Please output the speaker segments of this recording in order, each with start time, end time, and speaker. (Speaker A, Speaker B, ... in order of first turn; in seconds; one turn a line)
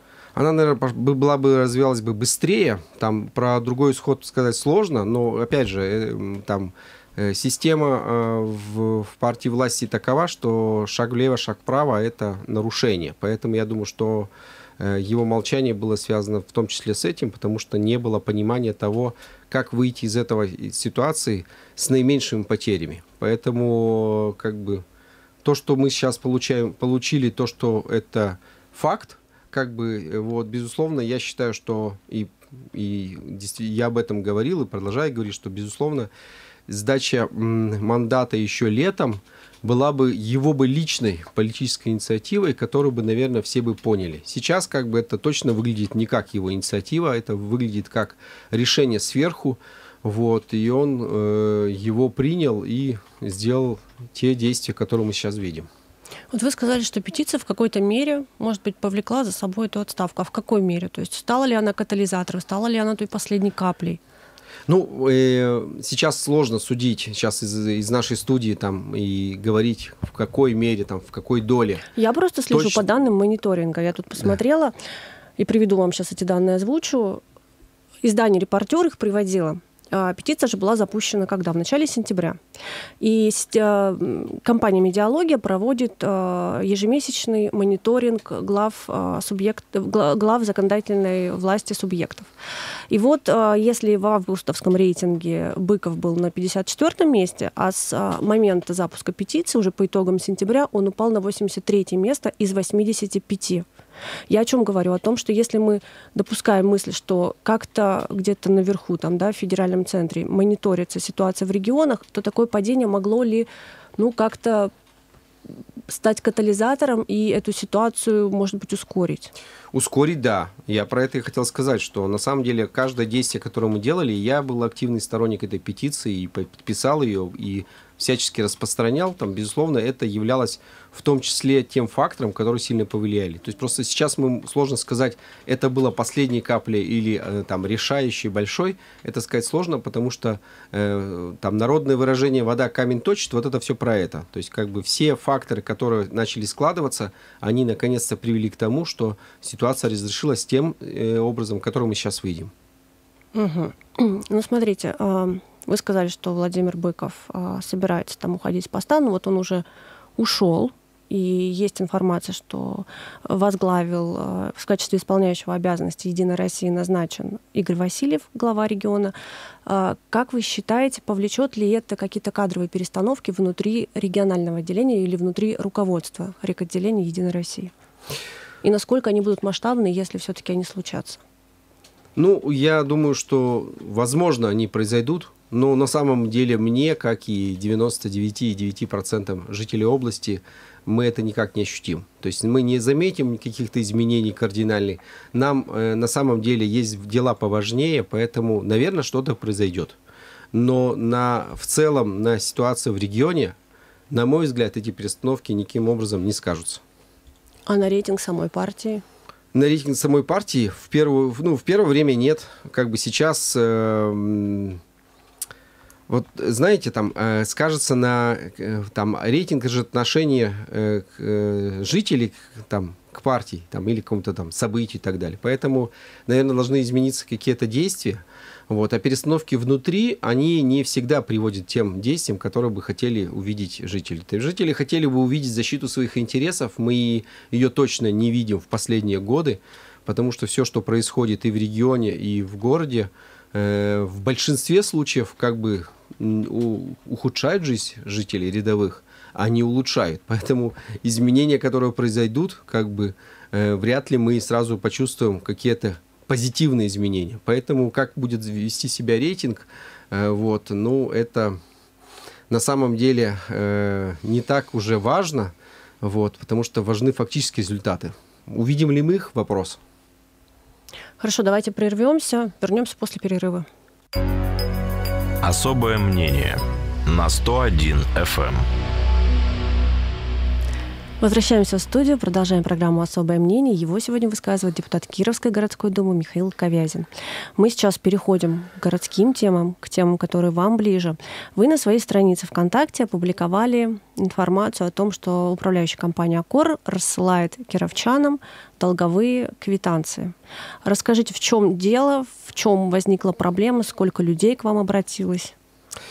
Speaker A: 0.3-24.8
Speaker A: 25.4-36.1
Speaker A: 36.7-55.7
Speaker B: 56.3-64.0
Speaker A: 64.7-71.9
Speaker B: 72.0-74.7
Speaker A: 72.5-72.9
Speaker B: 75.4-77.2
Speaker B: 78.0-82.4
Speaker B: 83.0-92.3
Speaker B: 92.9-103.7
Speaker B: 104.3-114.7
Speaker B: 115.9-119.3
Speaker A: 119.7-152.5
Speaker B: 153.3-159.7
Speaker B: 160.2-169.1
Speaker B: 169.7-177.7
Speaker B: 178.6-181.2
Speaker A: 182.2-200.0
Speaker A: 200.5-203.6
Speaker A: 204.1-206.8
Speaker B: 207.7-209.0
Speaker A: 209.5-214.8
Speaker A: 216.1-261.6
Speaker A: 262.5-269.8
Speaker B: 271.2-273.7
Speaker C: 275.4-278.6
Speaker B: 281.2-300.3
Speaker B: 300.9-305.5